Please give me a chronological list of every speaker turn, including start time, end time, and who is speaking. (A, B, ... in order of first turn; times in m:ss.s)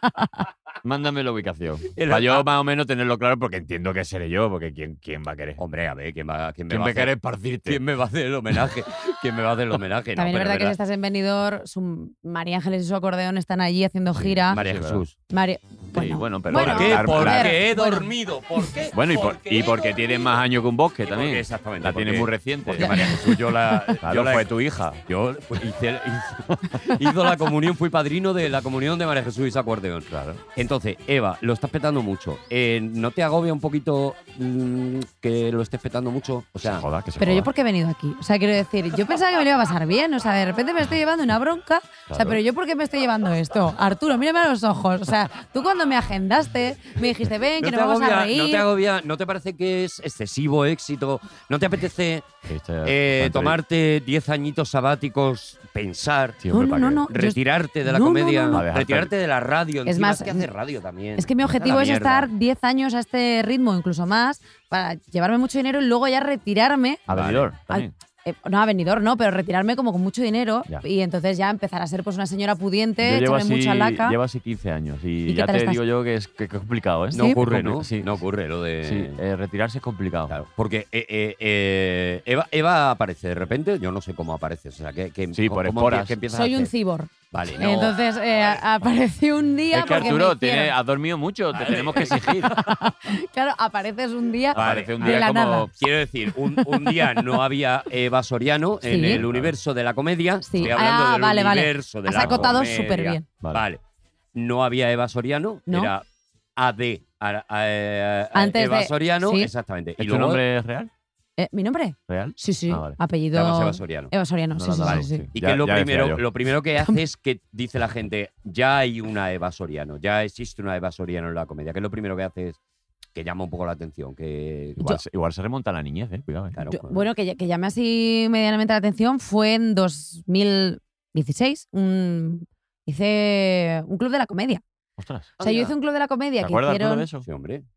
0:00.8-0:05.6 A
0:01.9-0:02.5 B
0:05.6-0:07.1 B
0:06.7-0:07.8 A
0:07.6-0:10.8 B
0:10.2-0:14.6 C
0:14.1-0:15.0 A
0:14.5-0:15.1 B
0:15.3-0:18.1 C
0:15.9-0:17.6 A
0:16.5-0:20.2 B
0:18.9-0:23.4 A
0:21.0-0:24.5 B
0:22.8-0:23.1 C
0:24.0-0:25.0 A
0:25.0-0:36.8 B
0:36.6-0:37.5 A
0:37.2-0:48.6 C
0:42.1-0:42.4 A
0:47.6-0:52.3 B
0:52.4-0:53.6 A
0:52.8-1:02.3 B
0:56.4-0:57.0 A
0:56.5-0:58.6 C
0:58.5-0:59.1 A
0:59.8-1:00.5 C
1:01.2-1:07.0 C
1:07.1-1:07.9 A
1:07.1-1:07.5 B
1:07.7-1:14.2 C
1:13.0-1:18.2 A
1:15.3-1:15.8 C
1:17.1-1:19.2 B
1:18.8-1:20.3 A
1:20.3-1:26.7 B
1:25.3-1:26.2 A
1:26.3-1:30.7 C
1:27.3-1:28.6 B
1:29.7-1:32.6 A
1:29.9-1:30.2 B
1:31.5-1:32.4 B
1:32.4-1:35.7 C
1:34.5-1:35.7 A
1:34.5-1:43.8 B
1:38.8-1:39.2 C
1:38.9-1:39.6 A
1:40.4-1:43.2 C
1:42.2-1:42.8 A
1:44.3-1:46.0 B
1:46.6-1:50.4 B
1:48.3-1:49.5 C
1:50.0-1:50.9 A
1:51.4-1:55.3 C
1:52.1-1:53.0 A
1:53.3-1:54.1 B
1:54.6-1:56.2 A
1:54.8-2:02.6 B
2:03.1-2:05.0 B
2:04.8-2:06.6 A
2:06.5-2:07.0 B
2:06.7-2:14.6 C
2:15.0-2:15.3 A
2:15.4-2:15.7 B
2:15.4-2:17.0 C
2:16.4-2:17.2 A
2:17.2-2:17.6 B